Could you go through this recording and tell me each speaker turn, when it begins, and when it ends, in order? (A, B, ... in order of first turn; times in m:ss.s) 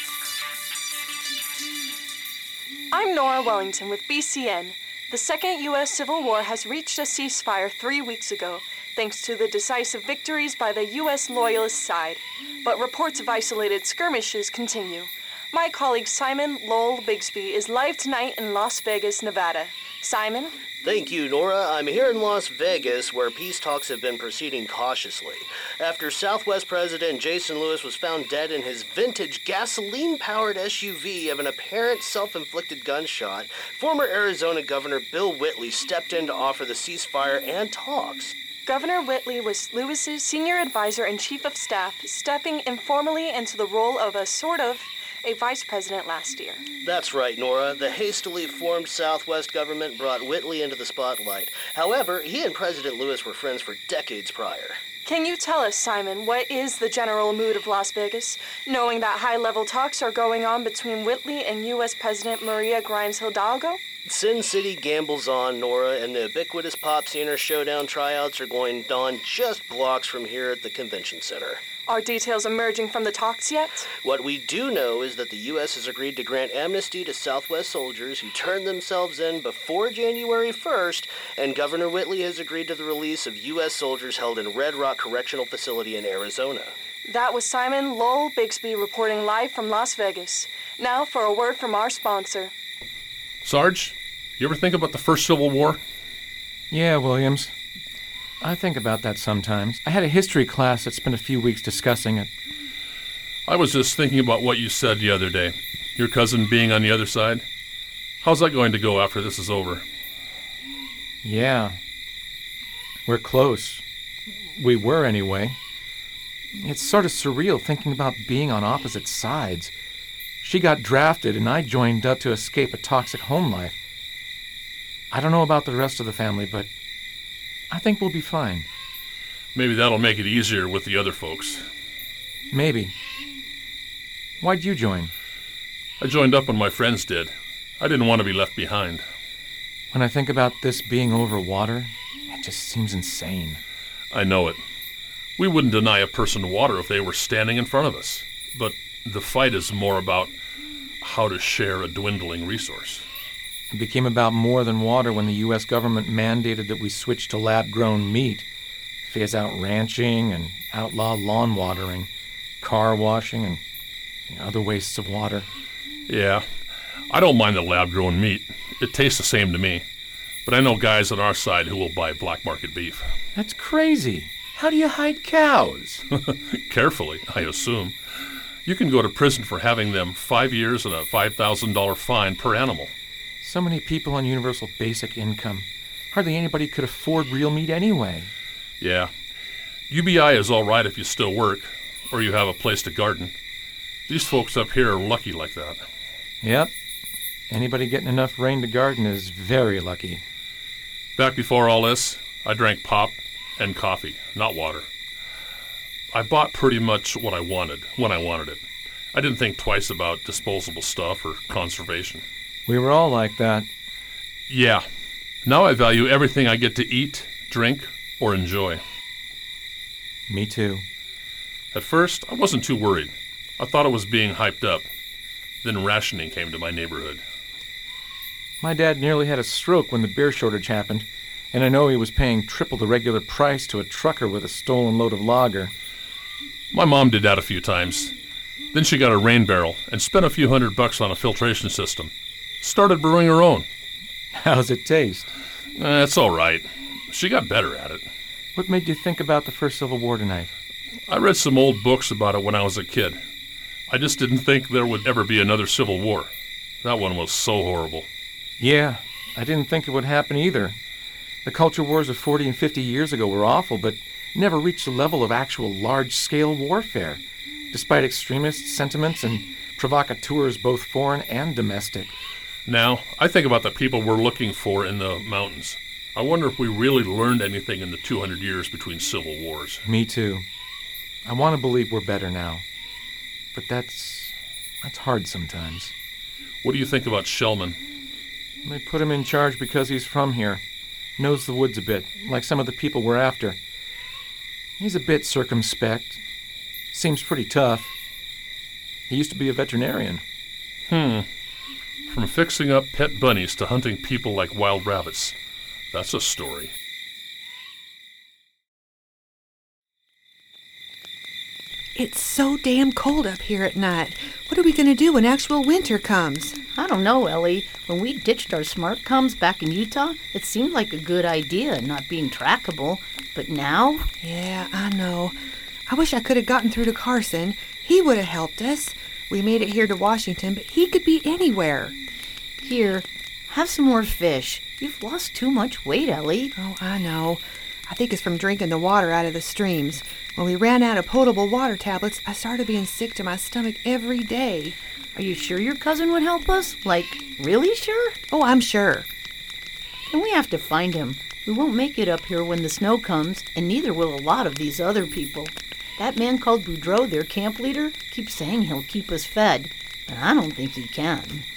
0:02.9-0:20.6 A
0:20.8-0:38.3 B
0:38.6-0:46.6 A
0:46.8-0:54.8 B
0:55.0-1:03.8 A
1:04.0-1:11.6 B
1:11.9-1:13.9 A
1:13.9-1:26.8 B
1:27.0-1:32.5 A
1:33.4-1:35.8 C
1:36.7-1:37.5 D
1:38.4-1:42.3 D
1:43.4-1:47.4 C
1:48.2-1:49.8 C
1:51.2-1:51.8 D
1:53.0-1:53.8 D
1:54.5-1:55.6 D
1:56.6-1:59.7 D
2:00.4-2:03.8 D
2:05.1-2:06.7 D
2:07.7-2:08.7 D
2:09.5-2:11.7 C
2:12.5-2:12.9 D
2:14.4-2:15.1 D
2:16.0-2:19.0 C
2:19.9-2:23.6 D
2:24.1-2:24.6 C
2:25.4-2:30.3 C
2:31.0-2:33.0 C
2:33.7-2:38.4 D
2:39.0-2:42.1 D
2:42.6-2:43.6 D
2:44.3-2:45.5 D
2:46.1-2:46.5 C
2:47.1-2:49.8 C
2:50.4-2:53.1 C
2:53.3-2:56.0 D
2:56.2-2:58.0 C
2:58.6-3:02.9 C
3:03.4-3:08.3 D
3:08.8-3:09.1 C
3:09.9-3:13.3 C
3:14.1-3:15.8 C
3:16.4-3:16.7 D
3:17.5-3:20.2 D
3:21.2-3:24.9 C
3:26.1-3:32.2 C
3:32.7-3:33.7 D
3:34.5-3:34.8 C
3:35.4-3:38.8 C
3:40.3-3:40.8 D
3:41.7-3:44.9 C
3:45.6-3:47.2 C
3:48.6-3:55.7 D
3:56.7-3:58.1 C
3:58.7-4:02.1 C
4:02.6-4:03.7 C
4:04.3-4:05.3 D
4:05.8-4:08.0 C
4:08.5-4:10.5 D
4:11.1-4:13.2 C
4:13.9-4:16.3 C
4:16.8-4:18.1 C
4:18.6-4:20.8 D
4:21.4-4:32.1 D
4:32.6-4:39.8 C
4:39.8-4:40.4 D
4:41.2-4:42.6 D
4:43.5-4:45.9 D
4:46.6-4:47.8 C
4:48.6-4:50.6 D
4:51.2-4:53.6 D
4:54.8-4:56.2 D
4:56.9-4:57.9 D
4:59.1-5:00.2 D
5:00.9-5:01.3 C
5:02.1-5:05.3 C
5:05.9-5:06.7 C
5:12.0-5:16.6 E
5:16.7-5:24.1 F
5:24.2-5:31.9 E
5:32.6-5:36.5 F
5:36.6-5:44.8 E
5:45.1-5:48.2 F
5:48.3-5:49.1 E
5:50.1-6:01.4 F